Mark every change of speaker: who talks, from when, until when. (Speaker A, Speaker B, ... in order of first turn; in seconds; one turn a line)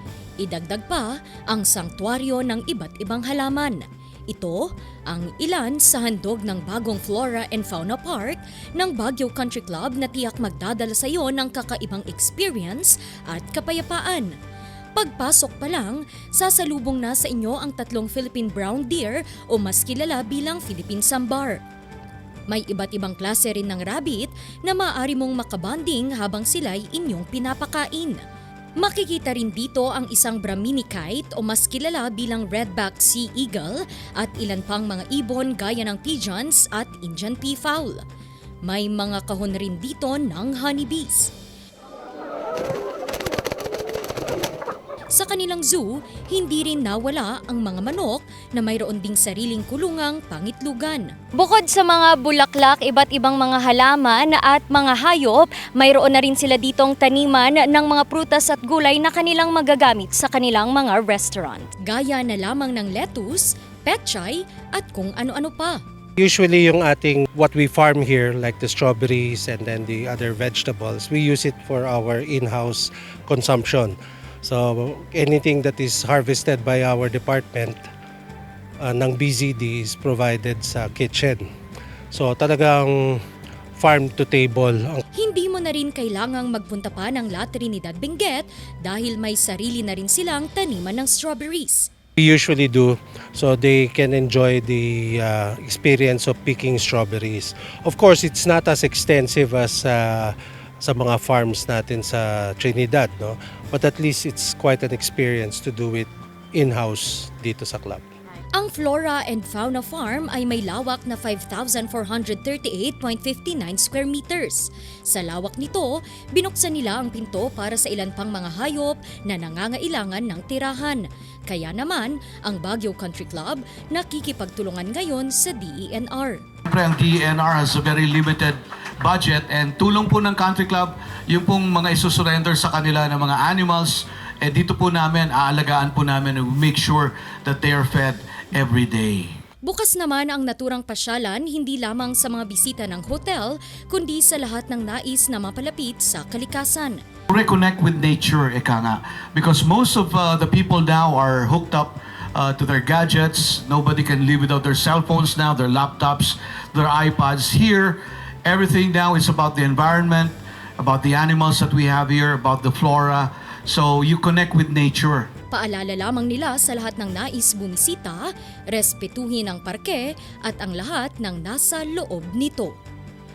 Speaker A: 0.4-14.3
Speaker A: 14.9-21.6
Speaker A: 22.5-28.2
Speaker A: 28.8-38.0
Speaker A: 38.6-41.3
Speaker A: 45.1-65.8
Speaker B: 66.2-77.8
Speaker B: 78.8-81.4
Speaker B: 82.1-83.2
Speaker B: 83.8-85.0
Speaker A: 85.1-91.9
Speaker B: 92.2-108.0
Speaker A: 108.5-126.4
Speaker C: 126.7-139.3
Speaker A: 139.6-147.0
Speaker C: 147.3-165.3
Speaker A: 165.5-172.8